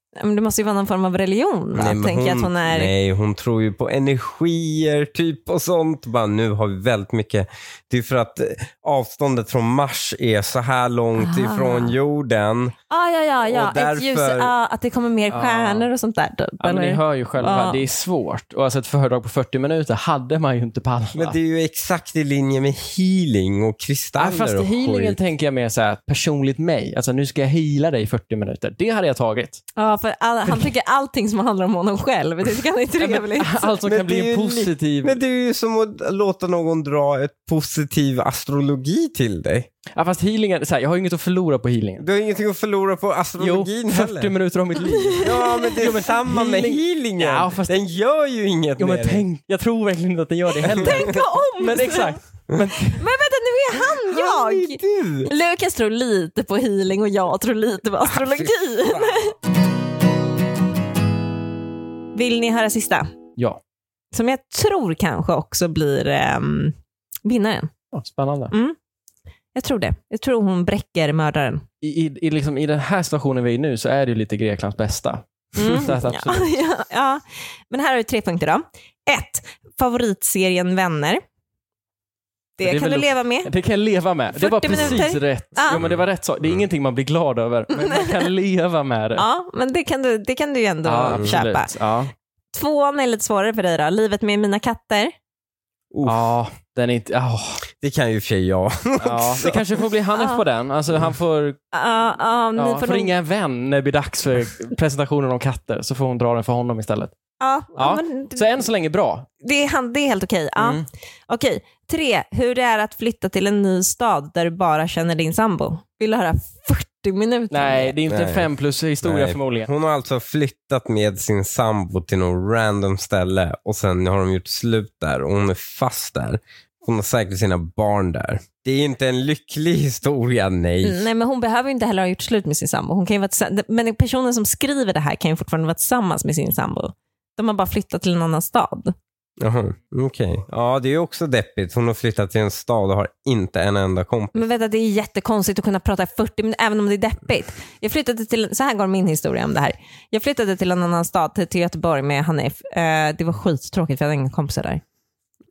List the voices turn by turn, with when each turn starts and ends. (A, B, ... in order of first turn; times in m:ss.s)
0:00.2-0:02.9 A
0:01.7-0:12.8 B
0:11.2-0:12.0 A
0:12.9-0:17.8 A
0:13.5-0:14.5 B
0:15.3-0:15.9 C
0:16.6-0:21.4 C
0:21.2-0:25.2 B
0:24.2-0:29.6 C
0:29.8-0:33.8 A
0:30.4-0:30.7 C
0:33.0-0:35.2 C
0:33.8-0:39.7 B
0:40.0-0:42.0 C
0:42.0-0:44.3 B
0:43.4-0:47.8 C
0:45.1-0:45.7 A
0:45.2-0:49.2 B
0:48.8-0:53.0 C
0:50.7-0:52.2 A
0:52.8-0:59.4 A
0:53.8-0:55.3 B
0:58.1-0:59.2 B
1:02.2-1:03.1 A
1:04.1-1:06.7 A
1:07.2-1:07.7 A
1:07.9-1:08.5 C
1:09.6-1:11.6 A
1:11.8-1:16.5 C
1:15.6-1:21.2 A
1:22.6-1:23.5 A
1:22.6-1:29.2 C
1:24.3-1:25.8 A
1:24.7-1:25.0 B
1:25.7-1:26.6 B
1:27.7-1:28.3 A
1:29.2-1:31.7 A
1:30.8-1:32.1 C
1:32.5-1:35.1 A
1:35.9-1:36.3 B
1:36.0-1:37.6 C
1:37.8-1:39.7 B
1:39.0-1:41.6 C
1:40.2-1:40.4 A
1:41.7-1:43.1 A
1:42.6-1:47.1 C
1:47.4-1:48.6 A
1:47.8-1:49.3 C
1:49.4-1:58.0 A
1:50.6-1:50.9 C
1:57.5-1:59.7 C
1:58.1-1:58.5 B
1:59.0-2:11.1 B
2:10.8-2:19.0 A
2:19.4-2:24.4 B
2:24.4-2:34.8 A